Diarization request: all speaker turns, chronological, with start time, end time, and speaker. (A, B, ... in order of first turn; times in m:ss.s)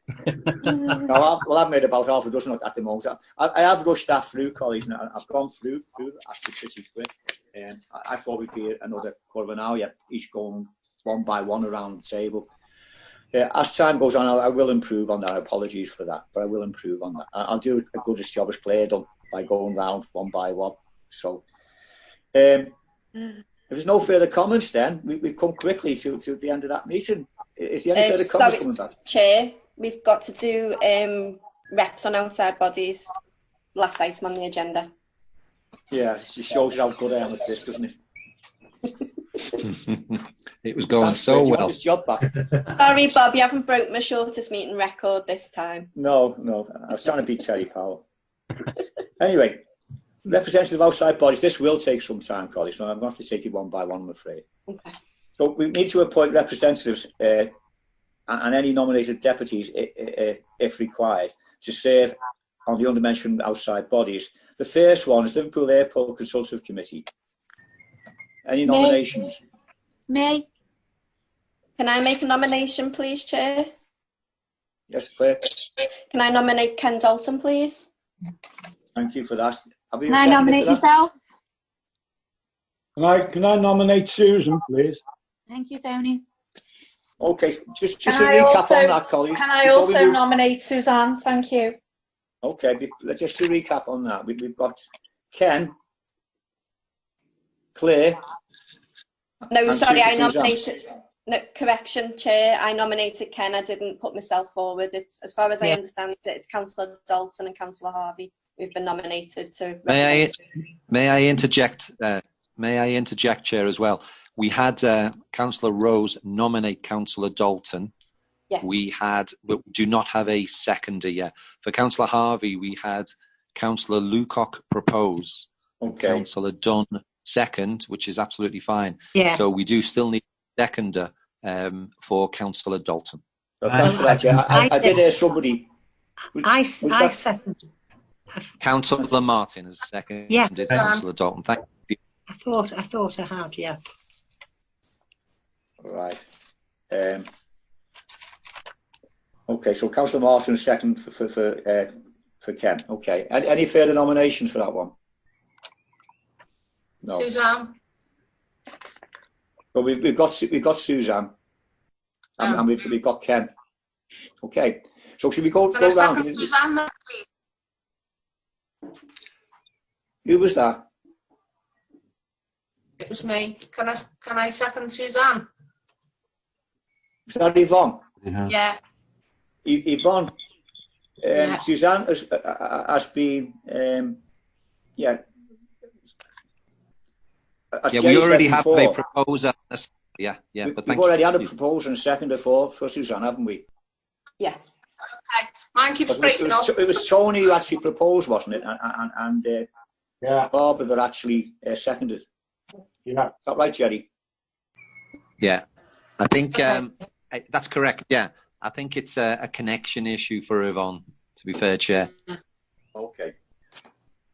0:00.9-0:12.5 A
0:13.3-0:21.4 A
0:22.3-0:22.7 A
0:23.7-0:28.9 A
0:27.9-0:33.1 B
0:33.7-0:34.9 B
0:35.9-0:37.9 A
0:39.6-0:41.7 C
0:41.0-0:42.3 A
0:42.8-0:45.9 B
0:46.0-0:48.0 A
0:49.2-0:49.6 A
0:50.2-0:54.4 A
0:55.4-0:57.5 A
0:58.3-1:07.0 A
1:08.4-1:09.4 A
1:08.7-1:09.0 D
1:10.1-1:10.4 D
1:11.8-1:13.7 B
1:14.9-1:15.5 A
1:16.1-1:17.9 B
1:19.0-1:20.8 A
1:20.1-1:21.1 D
1:23.0-1:25.0 E
1:25.5-1:26.2 D
1:27.2-1:30.2 A
1:28.0-1:31.8 F
1:32.4-1:35.7 A
1:37.7-1:38.2 A
1:39.5-1:50.3 B
1:39.6-1:40.6 A
1:49.9-1:50.3 C
1:50.9-1:57.9 C
1:58.6-2:13.2 C
2:05.8-2:06.2 A
2:09.1-2:09.4 G
2:13.6-2:15.7 A
2:13.7-2:15.0 G
2:16.4-2:17.2 A
2:16.4-2:17.6 G
2:18.6-2:22.0 C
2:20.8-2:21.0 H
2:22.3-2:23.8 G
2:25.8-2:26.2 A
2:26.9-2:27.2 A
2:29.5-2:31.9 A
2:32.4-2:34.9 A
2:37.2-2:37.7 H
2:39.7-2:41.3 A
2:42.4-2:43.5 A
2:42.4-2:42.6 H
2:44.4-2:46.5 A
2:45.7-2:47.2 H
2:50.2-2:50.8 A
2:53.0-2:55.5 H
2:57.3-2:58.0 A
2:58.5-2:58.8 H
2:59.6-3:00.3 A
3:01.2-3:04.2 A
3:01.3-3:01.6 H
3:07.7-3:09.0 A
3:07.9-3:11.5 C
3:10.6-3:13.6 A
3:15.3-3:16.7 H
3:16.1-3:19.7 A
3:20.2-3:20.5 E
3:20.5-3:22.2 A
3:23.0-3:23.3 E
3:23.4-3:24.1 A
3:26.2-3:32.1 C
3:32.9-3:33.3 A